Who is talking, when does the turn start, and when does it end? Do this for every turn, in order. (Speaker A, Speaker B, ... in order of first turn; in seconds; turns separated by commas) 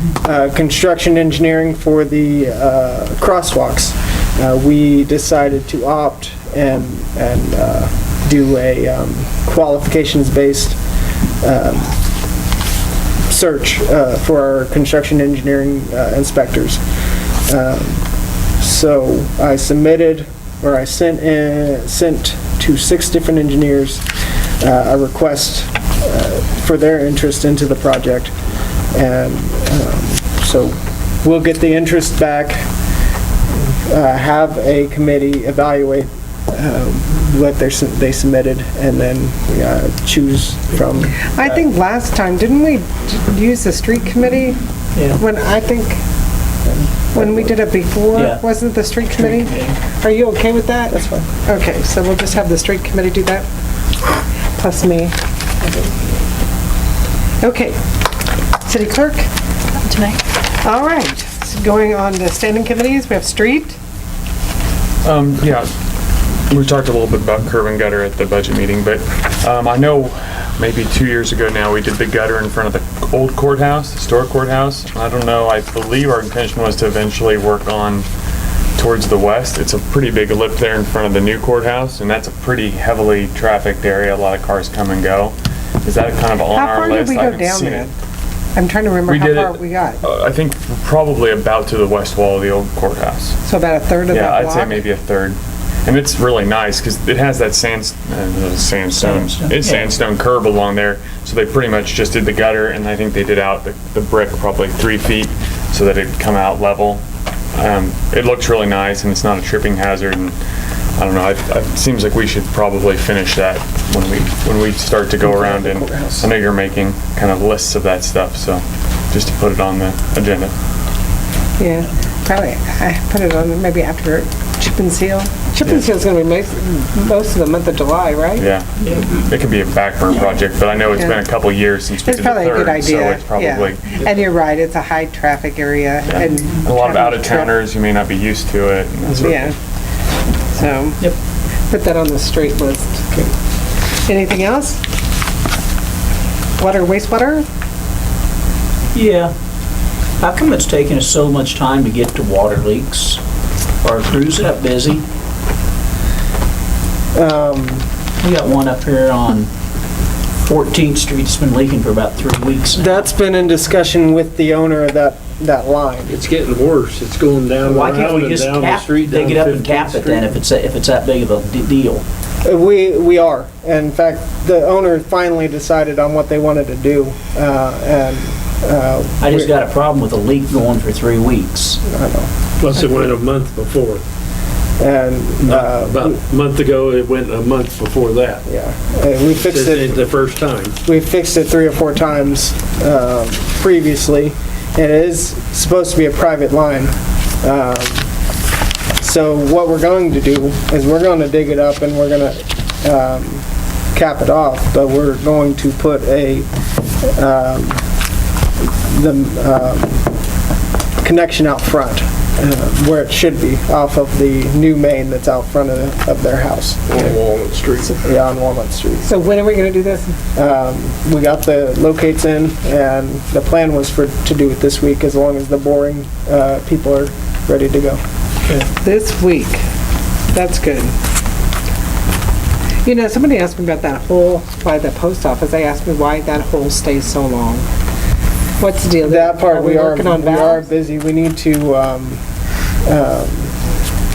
Speaker A: 0.2-10.8, Speaker A: 11.4-11.9, Speaker A: 13.3-16.8, Speaker A: 17.5-18.1, Speaker A: 18.6-24.0, Speaker A: 24.6-28.3, Speaker A: 28.9-32.6, Speaker A: 33.9-41.6, Speaker B: 41.2-44.6, Speaker B: 45.1-46.0, Speaker A: 46.7-47.5, Speaker B: 47.1-53.5, Speaker C: 48.1-48.4, Speaker C: 49.3-49.8, Speaker A: 50.9-51.3, Speaker B: 54.6-56.0, Speaker B: 57.4-57.8, Speaker B: 58.6-59.3, Speaker B: 60.4-63.8, Speaker D: 65.0-65.7, Speaker D: 66.5-78.1, Speaker D: 78.8-87.9, Speaker B: 86.5-88.0, Speaker B: 88.5-90.0, Speaker D: 89.1-93.4, Speaker B: 93.4-94.8, Speaker D: 94.1-107.0, Speaker C: 98.9-99.9, Speaker D: 107.5-110.4, Speaker D: 111.0-120.5, Speaker A: 115.2-116.3, Speaker B: 121.6-128.5, Speaker D: 125.6-125.9, Speaker D: 128.4-134.0, Speaker C: 128.8-129.1, Speaker B: 131.0-131.2, Speaker B: 132.0-137.5, Speaker D: 136.1-139.5, Speaker B: 139.2-139.5, Speaker B: 140.5-141.0, Speaker B: 141.7-143.2, Speaker B: 144.1-144.8, Speaker B: 146.6-147.5, Speaker C: 148.9-149.3, Speaker C: 150.2-153.2, Speaker C: 153.8-155.1, Speaker A: 157.2-157.8, Speaker C: 158.2-159.5, Speaker C: 160.4-163.1, Speaker A: 162.8-166.2, Speaker E: 166.1-170.3, Speaker C: 167.6-172.1, Speaker A: 172.4-179.5, Speaker C: 179.2-181.8, Speaker A: 181.8-182.3, Speaker E: 182.6-184.0, Speaker A: 184.8-186.2, Speaker E: 185.4-188.4, Speaker A: 188.5-190.0, Speaker E: 189.4-190.8, Speaker A: 190.8-198.1, Speaker A: 199.0-206.5, Speaker A: 207.0-207.8, Speaker A: 208.8-210.1, Speaker A: 211.0-217.2, Speaker E: 216.9-218.0, Speaker A: 217.9-219.1, Speaker B: 219.0-220.2, Speaker A: 220.3-228.0, Speaker B: 228.7-229.6, Speaker B: 230.3-230.9, Speaker B: 232.8-237.7, Speaker B: 238.6-240.7, Speaker A: 239.1-242.2, Speaker A: 242.8-243.5